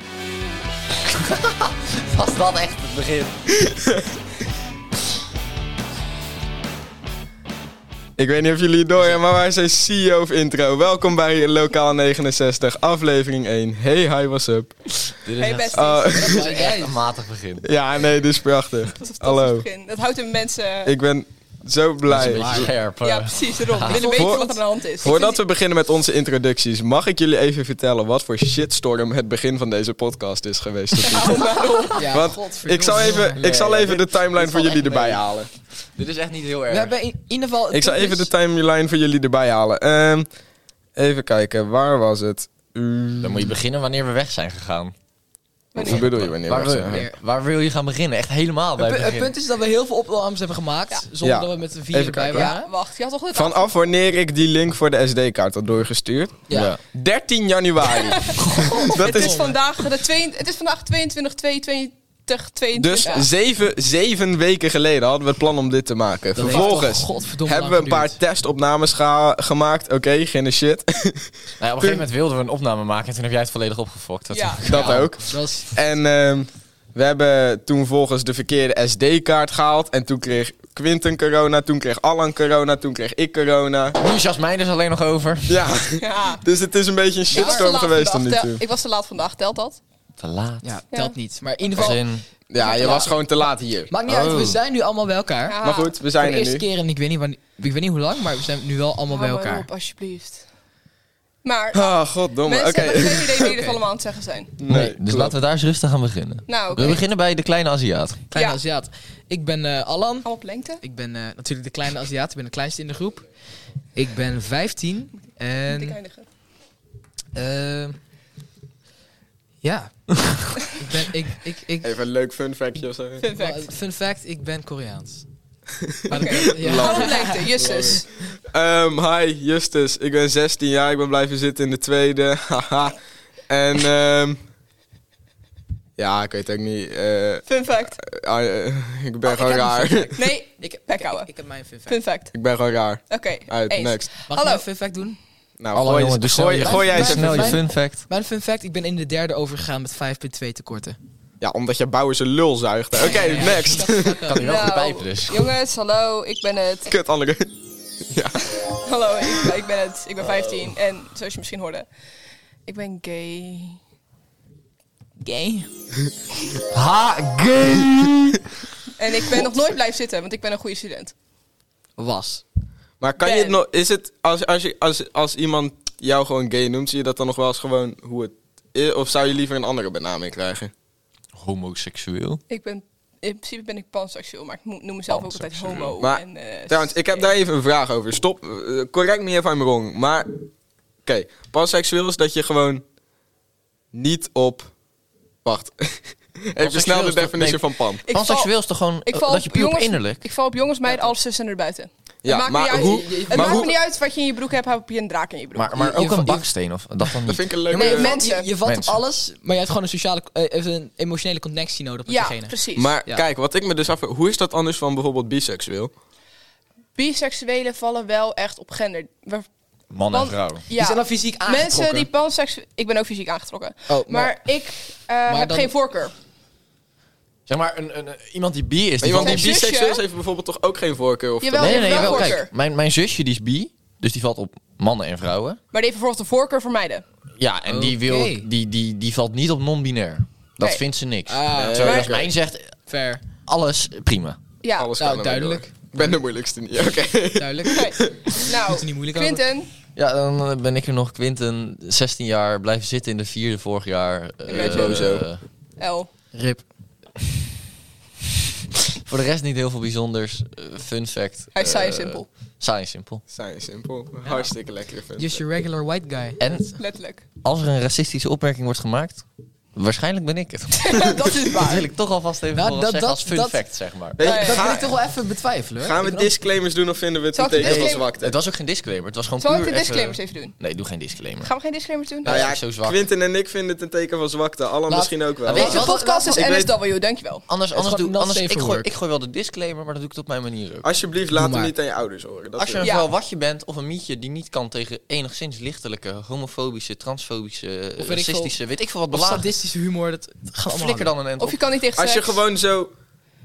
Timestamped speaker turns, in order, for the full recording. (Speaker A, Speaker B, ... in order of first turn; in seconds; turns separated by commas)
Speaker A: 1.0-3.4, Speaker B: 8.2-15.1, Speaker A: 15.2-17.7, Speaker C: 15.4-16.4, Speaker B: 15.7-16.6, Speaker D: 16.1-17.0, Speaker B: 17.6-19.6, Speaker C: 19.0-20.9, Speaker B: 20.9-22.7, Speaker A: 22.1-24.1, Speaker D: 22.1-22.7, Speaker C: 23.0-25.4, Speaker D: 23.8-24.6, Speaker B: 24.1-31.5, Speaker C: 31.0-32.1, Speaker D: 31.9-35.2, Speaker B: 32.1-35.5, Speaker A: 34.5-35.2, Speaker A: 36.0-36.9, Speaker D: 36.7-38.3, Speaker B: 37.7-40.3, Speaker B: 41.0-43.5, Speaker A: 43.2-44.9, Speaker C: 45.7-46.1, Speaker A: 45.8-49.3, Speaker B: 45.8-47.0, Speaker D: 46.9-47.2, Speaker D: 48.8-52.7, Speaker B: 51.2-52.5, Speaker C: 52.3-53.7, Speaker B: 53.3-59.6, Speaker D: 56.5-56.7, Speaker A: 56.5-56.8, Speaker C: 58.0-63.3, Speaker A: 58.4-58.8, Speaker D: 58.5-59.5, Speaker B: 62.7-71.3, Speaker D: 66.3-68.2, Speaker C: 66.5-66.8, Speaker A: 71.6-75.1, Speaker C: 74.3-74.7, Speaker B: 74.7-84.0, Speaker D: 74.7-75.8, Speaker A: 84.0-85.8, Speaker B: 85.5-88.6, Speaker C: 86.0-86.4, Speaker C: 87.3-89.8, Speaker D: 87.3-87.7, Speaker A: 90.2-90.6, Speaker D: 90.6-92.0, Speaker A: 91.7-92.2, Speaker B: 92.5-93.9, Speaker D: 92.6-93.2, Speaker C: 92.6-93.1, Speaker D: 93.9-95.6, Speaker A: 94.0-94.6, Speaker C: 95.5-95.9, Speaker B: 95.6-96.7, Speaker D: 96.2-99.7, Speaker C: 99.1-100.4, Speaker C: 101.4-104.5, Speaker B: 101.7-103.7, Speaker B: 104.6-105.3, Speaker A: 104.7-108.2, Speaker C: 106.5-107.0, Speaker D: 108.3-110.3, Speaker C: 108.3-108.6, Speaker C: 110.2-110.8, Speaker D: 110.8-113.2, Speaker D: 114.0-116.0, Speaker C: 115.7-116.2, Speaker D: 117.3-118.0, Speaker D: 119.6-122.0, Speaker B: 121.8-123.3, Speaker C: 123.2-123.7, Speaker D: 123.3-125.2, Speaker B: 125.8-133.0, Speaker D: 126.1-128.0, Speaker C: 126.1-128.0, Speaker B: 133.5-134.4, Speaker B: 136.0-140.1, Speaker C: 137.4-138.0, Speaker D: 139.3-142.0, Speaker C: 140.1-141.3, Speaker C: 141.9-142.3, Speaker B: 142.3-144.1, Speaker C: 143.1-144.7, Speaker D: 144.3-145.2, Speaker B: 145.6-147.6, Speaker A: 145.7-148.1, Speaker D: 146.5-151.0, Speaker B: 151.4-154.3, Speaker D: 153.0-154.5, Speaker C: 153.7-156.9, Speaker A: 154.1-155.5, Speaker B: 156.9-157.5, Speaker B: 158.1-158.4, Speaker C: 158.8-161.8, Speaker C: 162.7-163.8, Speaker D: 165.2-165.7, Speaker A: 166.7-168.4, Speaker C: 169.0-171.1, Speaker D: 172.0-172.4, Speaker B: 173.0-180.7, Speaker C: 173.2-173.6, Speaker A: 181.3-182.4, Speaker C: 182.5-186.9, Speaker A: 185.1-185.9, Speaker B: 186.0-190.3, Speaker B: 191.0-192.8, Speaker B: 193.9-194.7, Speaker B: 195.4-198.0, Speaker A: 196.6-200.2, Speaker C: 198.1-198.5, Speaker C: 199.1-205.9, Speaker B: 202.2-203.7, Speaker D: 202.7-203.7, Speaker A: 205.5-207.4, Speaker D: 205.7-206.4, Speaker B: 207.2-208.1, Speaker D: 207.7-213.2, Speaker C: 207.7-208.5, Speaker A: 208.6-209.0, Speaker C: 212.1-212.9, Speaker B: 212.8-215.9, Speaker C: 216.9-219.5, Speaker A: 219.9-220.6, Speaker C: 220.1-226.1, Speaker D: 220.7-222.1, Speaker D: 223.9-224.4, Speaker D: 225.3-225.7, Speaker A: 227.5-229.5, Speaker B: 229.0-232.3, Speaker C: 229.2-230.0, Speaker C: 231.4-232.5, Speaker A: 231.6-235.6, Speaker C: 235.7-237.0, Speaker A: 237.4-242.7, Speaker D: 237.7-238.5, Speaker D: 241.3-242.1, Speaker B: 241.6-242.3, Speaker D: 242.9-243.2, Speaker A: 243.4-244.4, Speaker C: 244.6-244.9, Speaker B: 244.8-248.3, Speaker D: 245.0-246.1, Speaker D: 247.4-249.4, Speaker C: 247.7-249.7, Speaker A: 249.9-255.4, Speaker C: 254.4-255.1, Speaker B: 254.5-255.2, Speaker C: 255.8-256.1, Speaker D: 256.3-256.6, Speaker A: 259.0-263.2, Speaker C: 261.5-262.3, Speaker B: 263.3-265.4, Speaker D: 264.2-264.5, Speaker D: 265.1-266.4, Speaker A: 266.4-266.7, Speaker C: 266.7-267.2, Speaker A: 267.4-274.2, Speaker C: 270.7-271.9, Speaker D: 272.5-273.6, Speaker B: 274.2-274.9, Speaker D: 274.2-276.3, Speaker C: 274.2-274.9, Speaker B: 275.8-278.3, Speaker C: 277.3-278.1, Speaker A: 277.6-281.5, Speaker C: 279.4-280.5, Speaker C: 281.4-282.4, Speaker A: 282.2-283.0, Speaker B: 282.2-285.8, Speaker D: 284.9-286.4, Speaker A: 285.4-286.0, Speaker C: 285.6-287.4, Speaker B: 286.3-286.7, Speaker A: 287.5-290.9, Speaker D: 287.7-288.9, Speaker B: 290.8-292.8, Speaker D: 291.3-291.7, Speaker A: 292.6-299.5, Speaker C: 292.8-293.1, Speaker D: 298.0-298.5, Speaker D: 299.1-301.1, Speaker A: 300.7-301.6, Speaker C: 301.4-302.4, Speaker B: 302.0-302.9